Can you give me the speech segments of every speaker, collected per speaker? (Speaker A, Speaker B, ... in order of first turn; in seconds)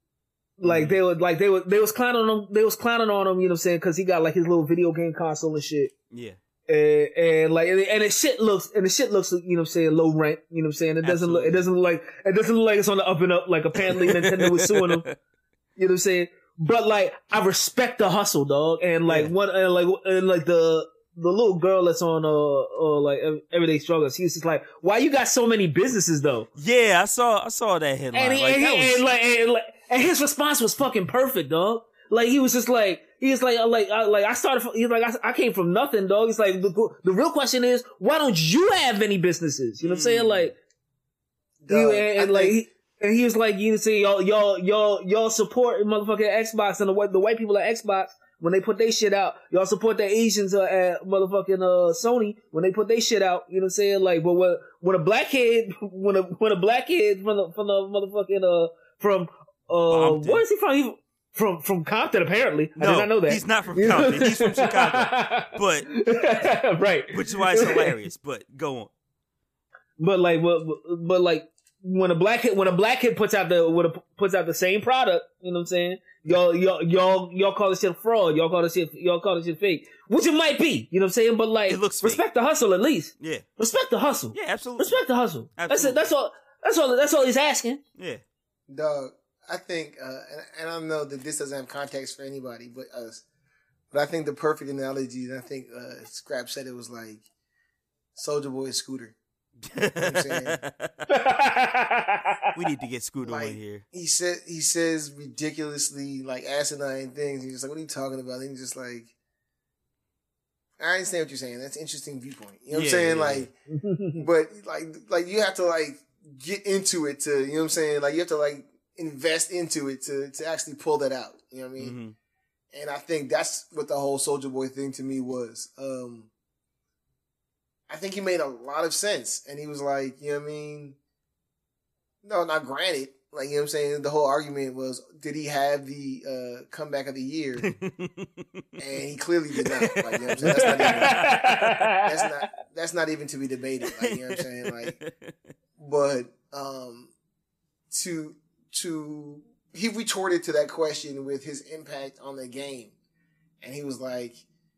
Speaker A: 0.6-5.9, 6.7-15.1, 15.8-26.5, 28.1-40.6, 41.7-67.9, 70.0-87.8, 101.1-102.3, 113.7-114.3, 140.5-142.1
Speaker B: 0.6-1.0, 6.1-6.4, 11.0-11.6, 13.8-15.2, 19.1-19.3, 26.6-29.0, 39.8-40.5, 59.9-60.4, 62.8-65.9, 67.1-68.9, 81.7-82.2, 83.2-83.5, 84.3-85.0, 85.6-86.0, 99.6-101.1, 102.5-103.8, 112.7-113.5, 121.8-122.2, 137.6-138.7, 139.6-141.9, 144.0-145.3
Speaker C: 41.6-42.6, 88.7-93.2, 93.9-97.2, 98.2-99.2, 100.0-100.6, 103.2-109.1, 110.8-113.5, 114.2-122.0, 122.7-126.3, 127.9-131.0, 132.2-137.7, 138.8-141.3, 142.0-145.0, 145.8-147.1, 147.9-152.9, 153.6-154.4